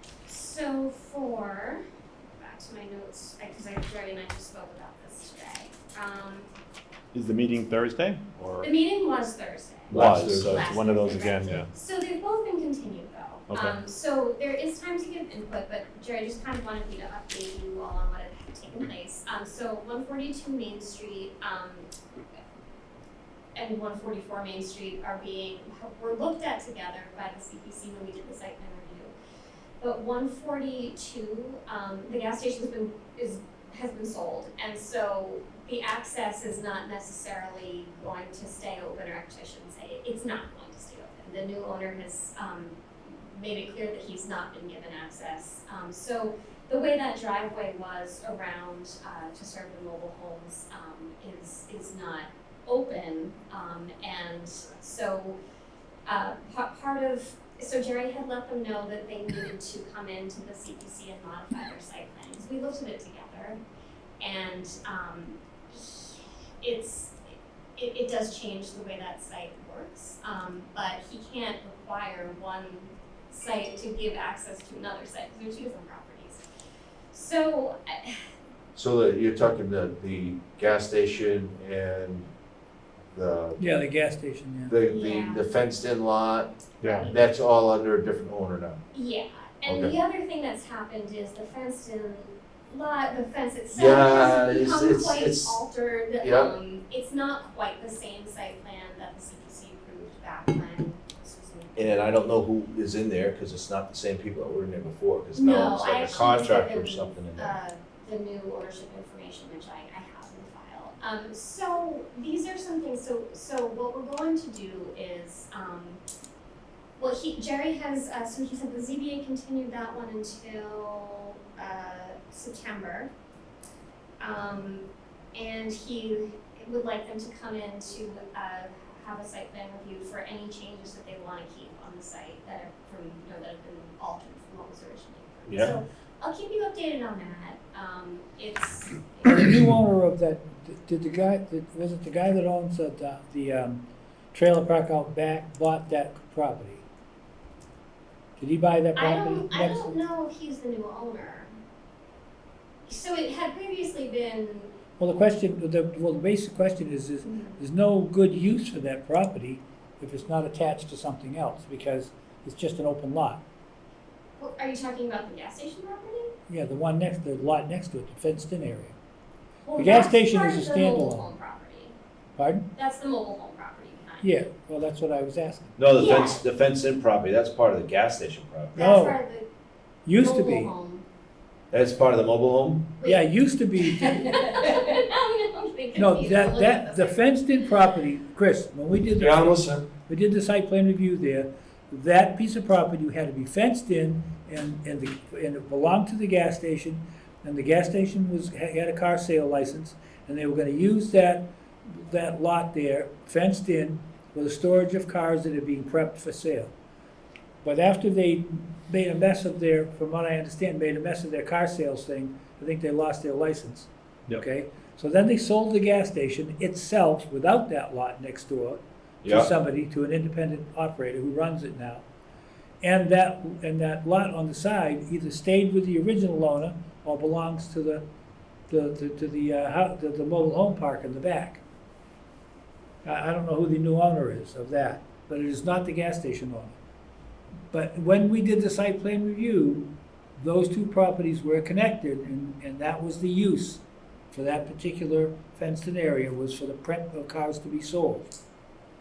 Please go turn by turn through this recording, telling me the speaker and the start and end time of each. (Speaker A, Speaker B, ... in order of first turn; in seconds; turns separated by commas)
Speaker A: 0.2-1.8, Speaker A: 2.3-6.5, Speaker B: 7.1-8.7, Speaker A: 8.6-21.9, Speaker C: 9.9-10.7, Speaker B: 9.9-11.7, Speaker B: 13.5-13.8, Speaker A: 23.5-29.1, Speaker A: 29.8-55.4, Speaker A: 56.0-63.6, Speaker A: 64.2-67.2, Speaker A: 67.8-76.4, Speaker A: 77.1-78.2, Speaker C: 78.7-82.3, Speaker C: 83.1-83.6, Speaker D: 83.6-84.8, Speaker C: 84.7-88.8, Speaker A: 84.9-85.5, Speaker A: 86.8-87.2, Speaker A: 88.9-102.1, Speaker C: 89.7-90.0, Speaker C: 93.7-95.6, Speaker C: 96.2-96.5, Speaker C: 101.8-107.5, Speaker A: 105.3-116.0, Speaker A: 117.0-123.1, Speaker A: 124.2-139.4, Speaker C: 135.5-135.7, Speaker D: 139.2-146.8, Speaker D: 148.4-149.9, Speaker A: 148.9-151.5, Speaker A: 152.8-154.7, Speaker D: 155.0-163.4, Speaker A: 157.2-157.6, Speaker A: 164.4-166.3, Speaker D: 166.5-168.9, Speaker A: 169.6-171.9, Speaker D: 169.8-171.3, Speaker D: 172.4-172.7, Speaker A: 172.7-174.4, Speaker D: 174.2-175.7, Speaker C: 175.8-178.8, Speaker A: 175.9-176.4, Speaker A: 178.7-179.5, Speaker D: 178.7-179.2, Speaker D: 180.1-180.7, Speaker A: 180.2-181.0, Speaker C: 181.7-182.9, Speaker A: 183.0-183.3, Speaker D: 183.0-184.8, Speaker A: 183.8-187.3, Speaker D: 185.9-206.7, Speaker C: 189.2-189.8, Speaker D: 207.6-222.0, Speaker C: 219.2-219.5, Speaker D: 222.8-228.0, Speaker D: 228.7-231.6, Speaker D: 233.0-236.7, Speaker D: 237.7-248.3